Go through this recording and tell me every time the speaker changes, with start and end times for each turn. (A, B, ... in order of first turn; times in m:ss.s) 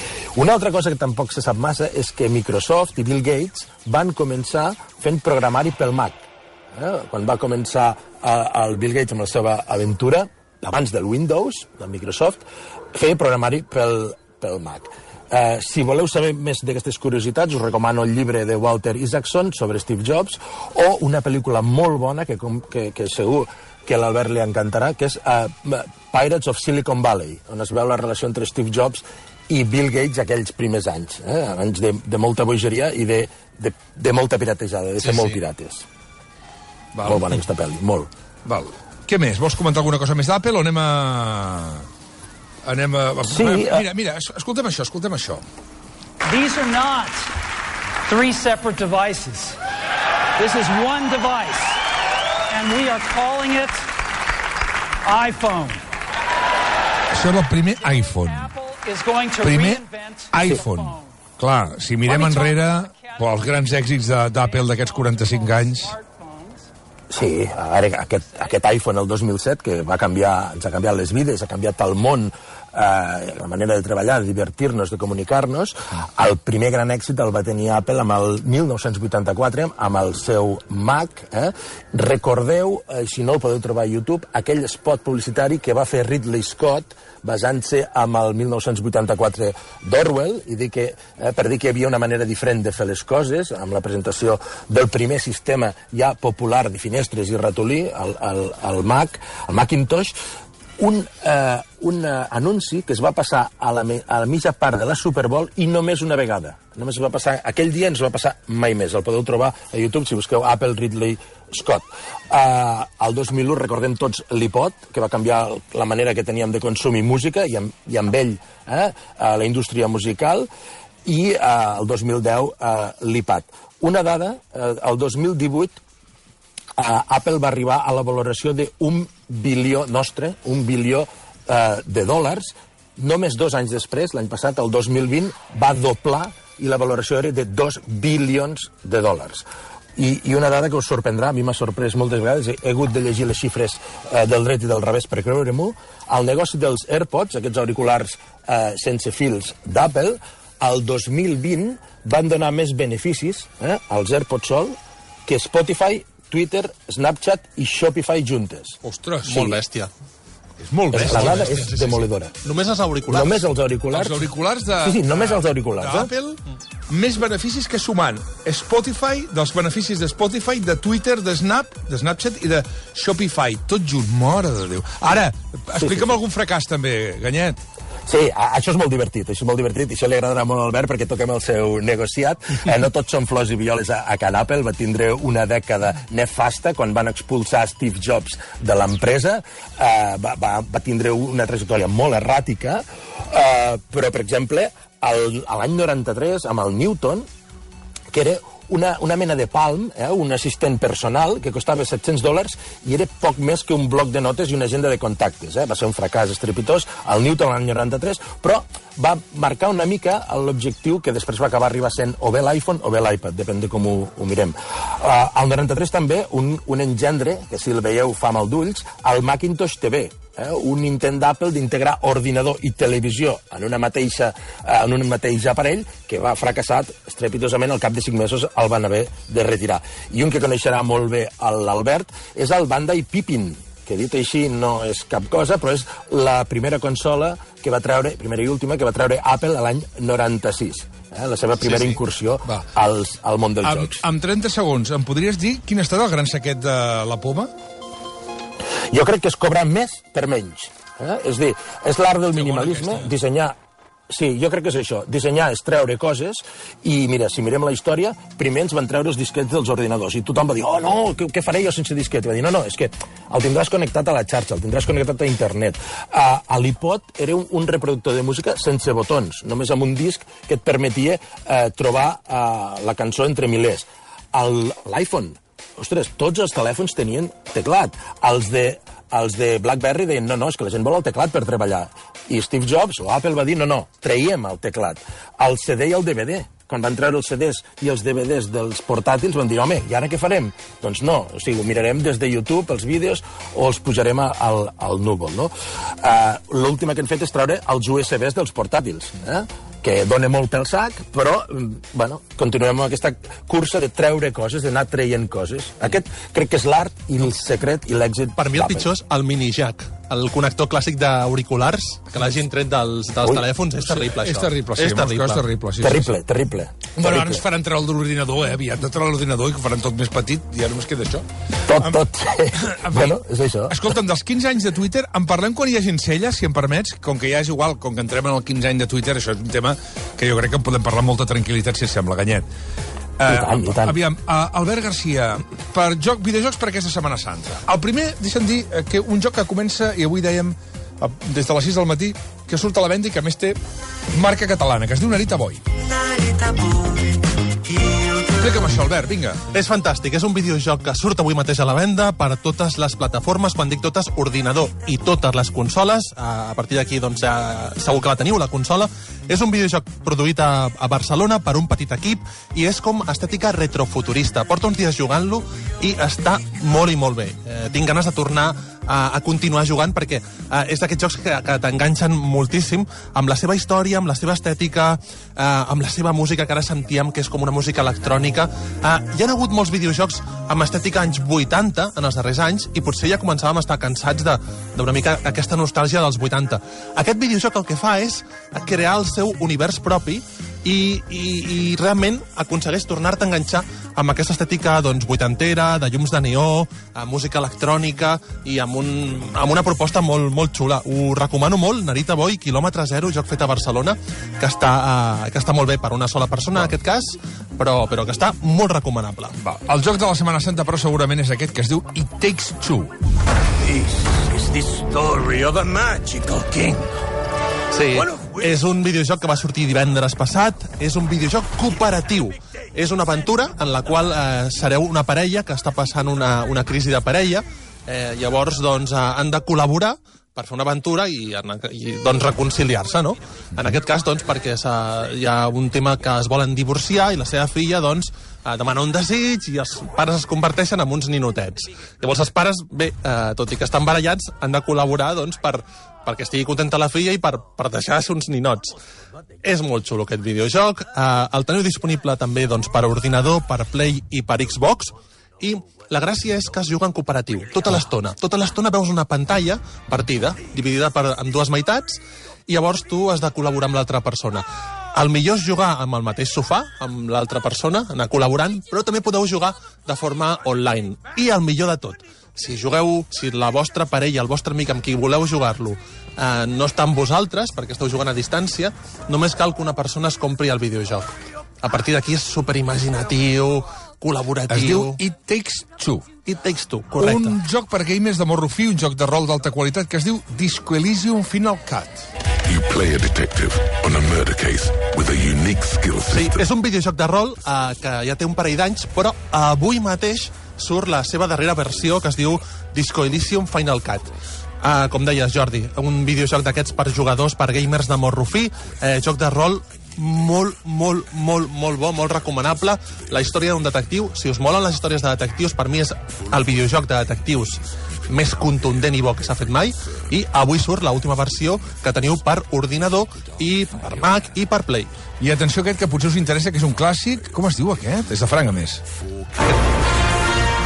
0:00.4-0:35.8 A
0:35.0-0:35.4 B
0:37.0-0:37.3 C
0:37.0-0:38.1 A
0:38.5-0:41.9 C
0:42.6-0:45.4 C
0:43.3-0:43.8 A
0:46.2-0:47.3 D
0:48.0-0:49.6 D
0:50.4-0:51.8 D
0:52.5-0:53.9 D
0:55.0-0:55.8 D
0:57.1-0:58.5 C
0:57.8-1:01.1 D
0:59.4-1:05.9 C
1:02.0-1:06.7 D
1:07.1-1:40.1 A
1:40.8-2:00.5 A
2:01.0-2:05.8 A
2:06.8-2:19.4 A
2:20.0-2:34.8 A
2:35.3-2:38.8 A
2:38.8-2:39.4 C
2:39.2-2:39.9 B
2:40.6-2:41.6 C
2:40.9-2:42.4 A
2:40.9-2:43.4 B
2:43.1-2:44.3 A
2:43.9-2:57.6 C
2:44.8-2:46.1 A
2:55.8-2:56.1 A
2:58.1-3:17.2 A
3:18.1-4:04.0 A
4:03.6-4:07.5 C
4:08.9-4:13.6 A
4:12.3-4:13.1 C
4:14.1-5:08.9 A
5:08.4-5:15.4 B
5:13.9-5:16.1 C
5:15.8-5:17.4 A
5:17.0-5:21.3 C
5:21.6-5:23.8 A
5:22.6-5:23.1 C
5:23.7-5:32.4 C
5:33.2-5:43.6 C
5:33.3-5:34.0 A
5:44.1-5:45.6 C
5:48.2-5:49.4 C
5:49.5-6:49.4 B
6:49.4-6:53.0 C
6:54.2-6:56.8 E
6:57.7-7:28.8 B
7:29.4-8:05.0 B
8:04.5-8:06.1 C
8:06.2-8:07.4 B
8:07.0-8:12.1 C
8:12.4-8:16.4 F
8:16.1-8:44.9 B
8:32.9-8:33.6 F
8:36.4-8:36.8 F
8:37.8-8:39.5 F
8:43.1-8:44.2 F
8:45.2-8:48.8 C